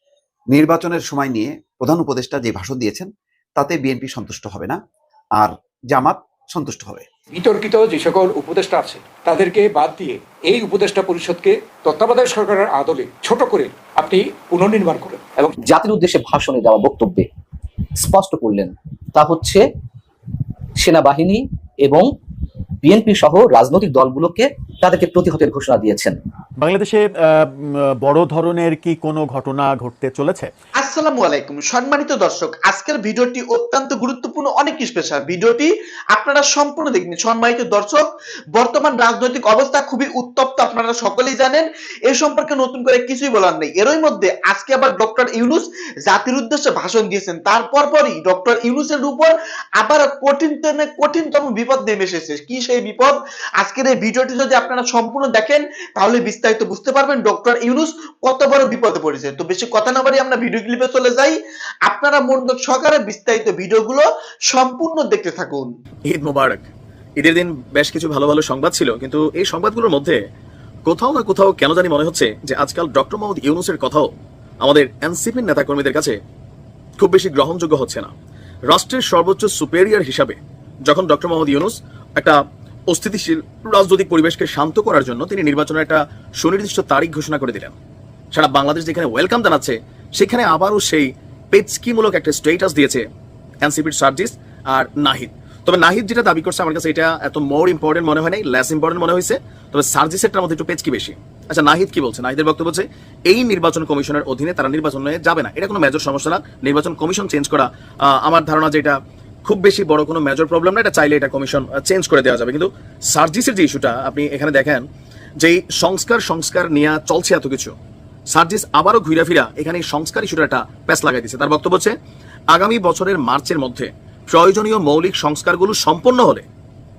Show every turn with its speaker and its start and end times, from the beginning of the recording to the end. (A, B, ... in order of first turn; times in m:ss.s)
0:00.5-0:04.8 A
0:05.4-0:07.0 A
0:07.3-0:15.6 B
0:15.6-0:17.3 C
0:18.0-0:19.6 C
0:20.8-0:22.1 C
0:22.8-0:26.2 C
0:26.6-0:27.1 D
0:28.0-0:30.5 D
0:30.8-1:05.7 E
1:06.1-1:10.2 F
1:10.9-1:14.1 F
1:14.6-1:16.2 F
1:17.0-1:18.1 F
1:18.7-1:22.4 F
1:22.9-1:27.8 F
1:28.3-1:33.0 F
1:33.6-1:54.8 F
1:55.4-1:57.7 F
1:58.3-2:02.0 F
2:02.5-2:06.4 F